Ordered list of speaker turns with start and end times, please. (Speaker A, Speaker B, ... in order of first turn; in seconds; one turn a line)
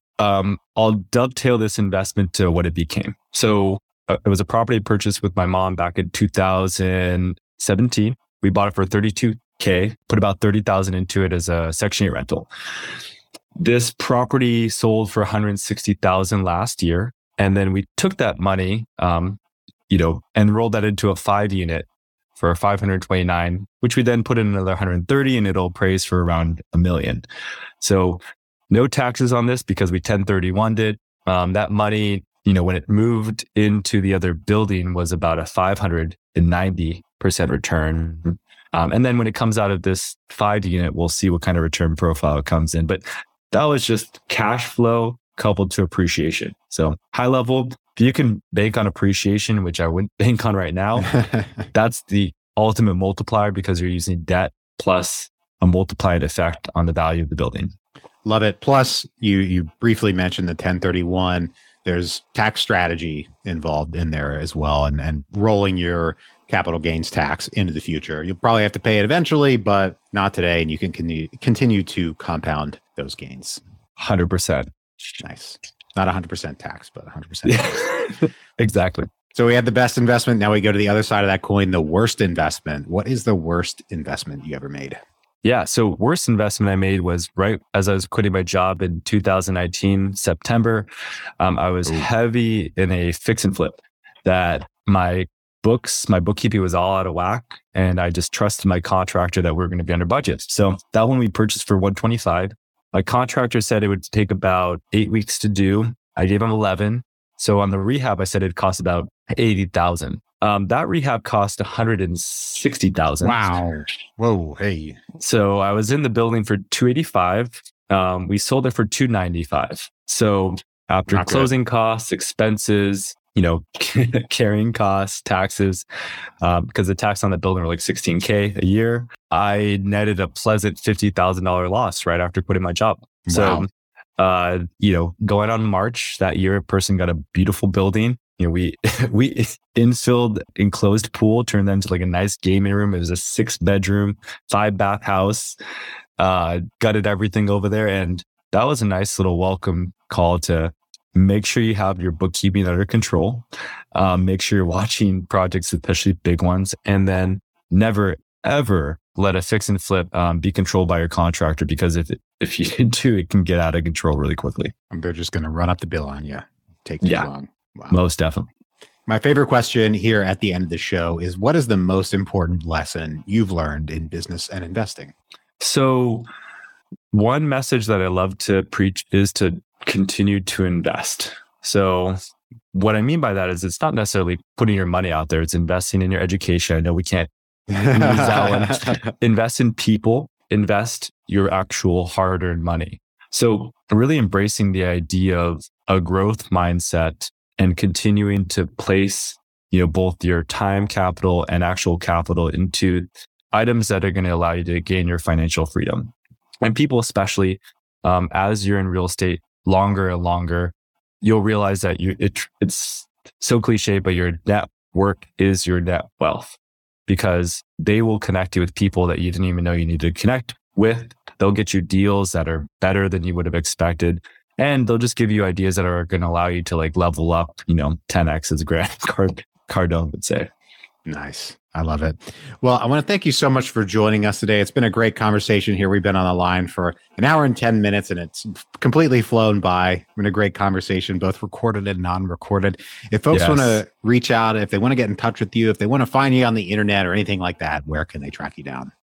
Speaker A: 0.2-12.5
Speaker A: 13.6-27.3
Speaker A: 27.8-51.2
Speaker A: 51.7-57.7
Speaker B: 58.2-73.6
Speaker A: 74.0-74.7
Speaker B: 75.2-77.9
Speaker A: 77.5-79.1
Speaker B: 79.3-85.0
Speaker A: 85.4-90.9
Speaker A: 91.4-113.4
Speaker B: 113.2-115.0
Speaker A: 115.2-125.8
Speaker B: 121.1-121.5
Speaker A: 126.4-145.6
Speaker B: 133.3-133.7
Speaker A: 146.2-164.7
Speaker B: 164.9-168.0
Speaker A: 167.0-167.3
Speaker A: 167.9-168.5
Speaker B: 169.1-175.1
Speaker A: 175.6-176.3
Speaker A: 177.1-182.2
Speaker A: 182.7-230.5
Speaker B: 231.1-248.9
Speaker A: 243.3-243.8